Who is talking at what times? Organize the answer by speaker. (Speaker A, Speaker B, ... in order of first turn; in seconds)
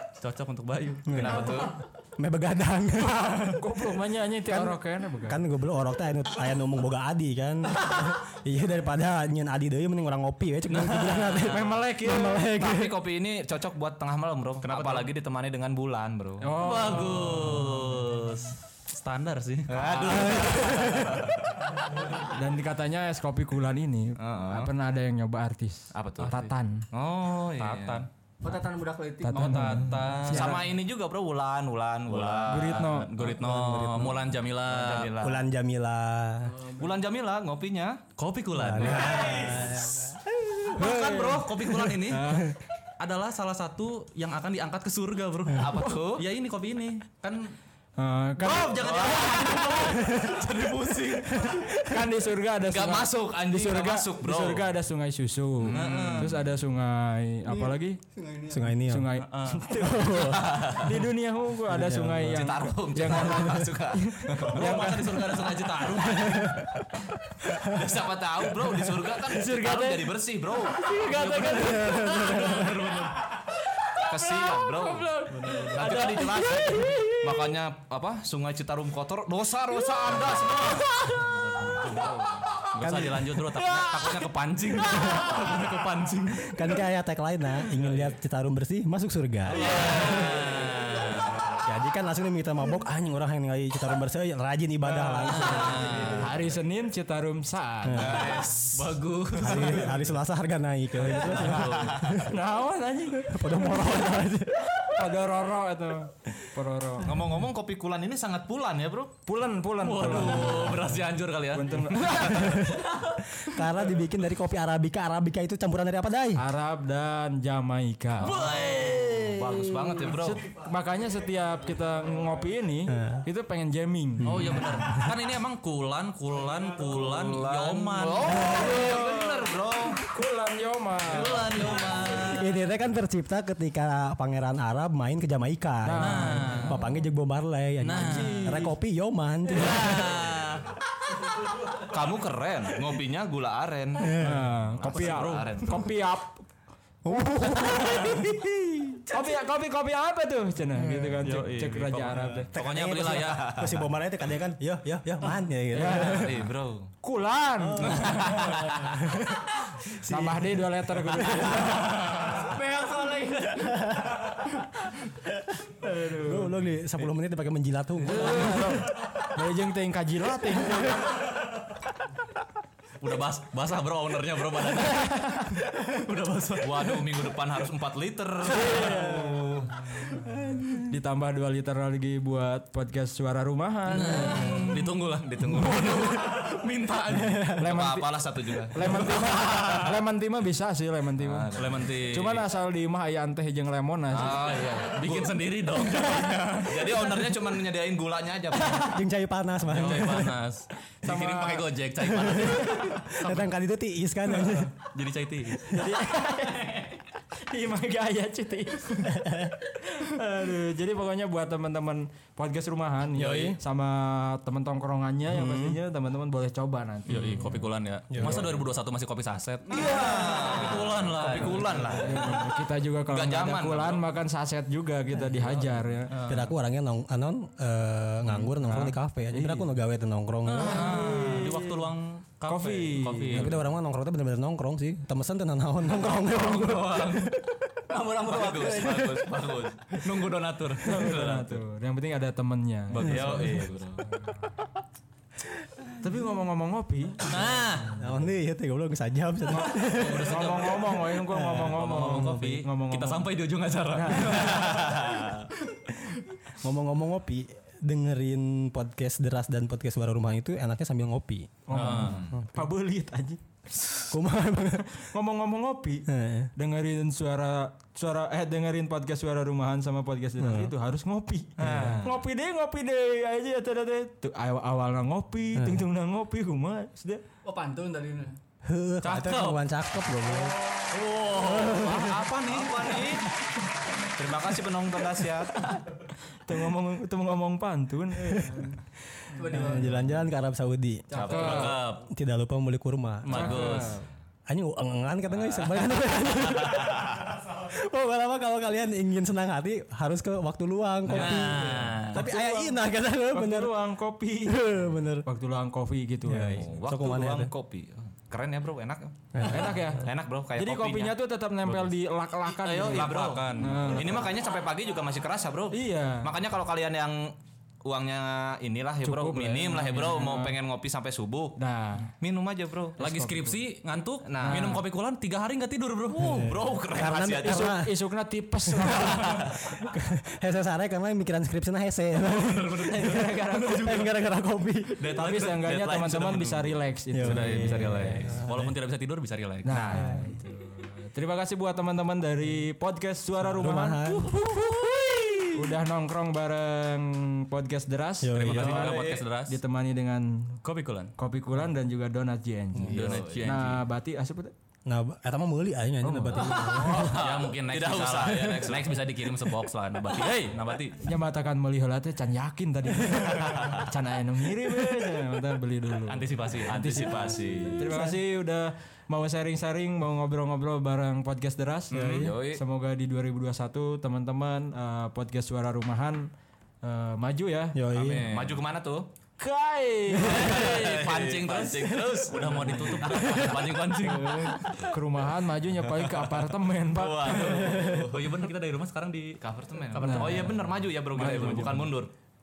Speaker A: 0.2-1.6, 10.7-11.7, 14.6-15.1, 16.6-20.9, 27.6-28.1, 29.3-30.6, 32.1-35.1, 38.2-39.8, 40.7-47.5, 48.4-51.6, 55.7-56.4, 59.2-59.7, 64.4-66.7, 71.2-73.2, 80.3-80.8, 82.7-86.6, 89.5-91.4, 95.4-96.2, 98.6-100.0, 109.8-112.5, 118.2-119.4, 124.2-128.8, 131.1-132.5, 135.9-136.8, 137.8-138.6, 139.5-140.6, 144.9-145.8, 151.2-153.5, 173.0-177.1, 183.9-187.6, 188.8-189.9, 191.5-192.4, 194.2-197.2, 199.7-203.5, 204.8-205.8, 213.2-213.6, 217.1-222.1, 226.1-226.5, 230.4-233.6, 236.1-237.3, 239.9-241.6, 242.9-243.6, 247.2-247.9, 249.8-251.0, 251.7-255.4, 261.7-262.3, 271.6-272.0, 279.0-279.6, 280.9-282.9, 291.3-292.0, 293.2-294.0, 301.1-302.2, 312.9-314.0, 323.0-326.6, 332.2-334.0, 335.0-335.6, 337.2-340.1, 344.4-345.4, 348.3-349.6, 350.6-351.1, 352.8-353.8, 356.9-361.0, 366.1-367.1, 371.9-372.3, 378.0-378.6, 380.3-384.8, 387.3-390.6
Speaker B: 1.1-3.6, 4.5-13.0, 20.0-21.3, 33.2-34.4, 35.1-36.5, 38.5-40.2, 50.0-50.3, 51.4-52.1, 58.5-59.2, 59.8-60.6, 61.7-63.7, 66.2-66.7, 67.5-67.8, 71.5-72.8, 86.4-90.0, 91.6-96.0, 97.8-98.3, 99.4-102.3, 103.1-105.0, 112.3-116.4, 122.9-123.2, 124.2-125.1, 132.2-140.2, 144.0-144.5, 147.0-148.6, 150.8-151.2, 152.8-156.4, 157.6-162.0, 166.2-168.8, 187.1-187.6, 198.8-200.3, 202.0-204.7, 209.1-209.5, 215.3-215.8, 218.1-218.6, 226.3-231.2, 233.3-237.5, 243.1-243.4, 247.9-250.6, 251.1-252.1, 256.6-261.6, 264.1-264.9, 266.1-266.5, 270.4-270.7, 271.7-272.0, 275.6-275.8, 278.6-282.3, 288.3-288.6, 289.4-293.7, 294.5-303.7, 304.4-305.3, 306.2-307.5, 309.3-309.8, 326.2-327.9, 329.7-334.9, 337.1-338.7, 339.9-340.3, 343.4-344.4, 348.2-349.0, 354.9-357.2, 367.8-368.2, 377.7-378.3, 380.1-380.5, 387.5-388.1
Speaker C: 1.1-1.8, 12.4-16.5, 19.7-21.5, 24.2-24.7, 25.9-28.0, 30.2-32.9, 34.7-35.5, 36.7-38.0, 45.5-46.2, 48.6-49.8, 52.6-54.7, 55.6-56.4, 60.2-60.9, 62.2-64.7, 67.6-71.7, 74.0-83.3, 89.6-91.6, 95.7-96.2, 98.0-98.8, 99.4-99.9, 101.1-102.2, 107.0-109.2, 119.2-120.4, 126.8-130.1, 131.1-132.1, 141.8-145.9, 151.2-151.9, 152.5-153.9, 155.9-156.9, 157.8-159.0, 176.6-179.8, 184.4-186.2, 187.6-189.0, 191.2-192.0, 194.1-195.4, 196.6-199.0, 219.7-222.4, 223.0-224.1, 238.1-240.0, 242.9-244.1, 254.8-255.2, 261.9-262.4, 271.6-272.2, 281.9-283.3, 284.0-285.6, 291.1-291.9, 295.6-297.3, 301.1-301.5, 306.6-311.1, 312.6-321.6, 322.2-323.0, 324.2-324.8, 326.2-327.8, 335.1-336.7, 337.8-338.2, 348.5-349.2, 352.8-353.6, 356.4-359.0, 366.6-368.0, 372.0-372.6, 377.9-379.1, 380.2-383.7, 386.9-388.5, 389.4-392.1
Speaker D: 3.2-5.4, 11.4-12.5, 16.4-17.9, 22.1-26.9, 29.2-30.6, 32.5-33.1, 40.7-42.6, 48.0-49.0, 51.8-58.0, 58.8-65.2, 69.2-70.1, 70.7-72.7, 73.9-77.5, 83.3-85.2, 94.8-98.4, 101.0-101.2, 102.2-104.1, 104.8-107.1, 109.2-110.9, 111.5-112.8, 116.3-118.5, 120.0-124.5, 128.0-131.6, 135.8-136.8, 137.9-138.8, 144.2-146.4, 147.1-148.3, 149.1-152.5, 155.7-156.3, 157.0-158.2, 160.0-161.9, 165.7-166.6, 168.1-171.1, 178.5-184.6, 187.6-194.5, 201.0-201.7, 202.4-202.9, 205.7-209.2, 209.8-217.6, 221.2-226.2, 228.6-229.7, 230.6-231.9, 232.4-233.6, 240.8-243.4, 246.0-247.6, 249.6-253.3, 253.9-254.8, 261.7-264.0, 264.8-277.2, 286.4-288.8, 289.5-290.2, 291.1-291.8, 293.3-294.0, 302.0-304.7, 305.2-306.6, 309.4-314.3, 315.7-316.3, 319.0-320.6, 321.6-322.1, 323.0-323.6, 324.4-324.8, 327.4-329.5, 332.9-334.1, 335.1-338.1, 339.6-344.9, 345.5-350.6, 351.2-354.5, 356.0-356.4, 361.0-376.3, 376.8-377.9, 379.4-380.8, 382.4-382.9, 383.9-387.6, 389.9-390.6, 391.1-391.9
Speaker E: 28.4-29.6, 57.6-58.7, 162.4-163.9, 237.9-239.4, 277.4-278.4, 289.3-289.9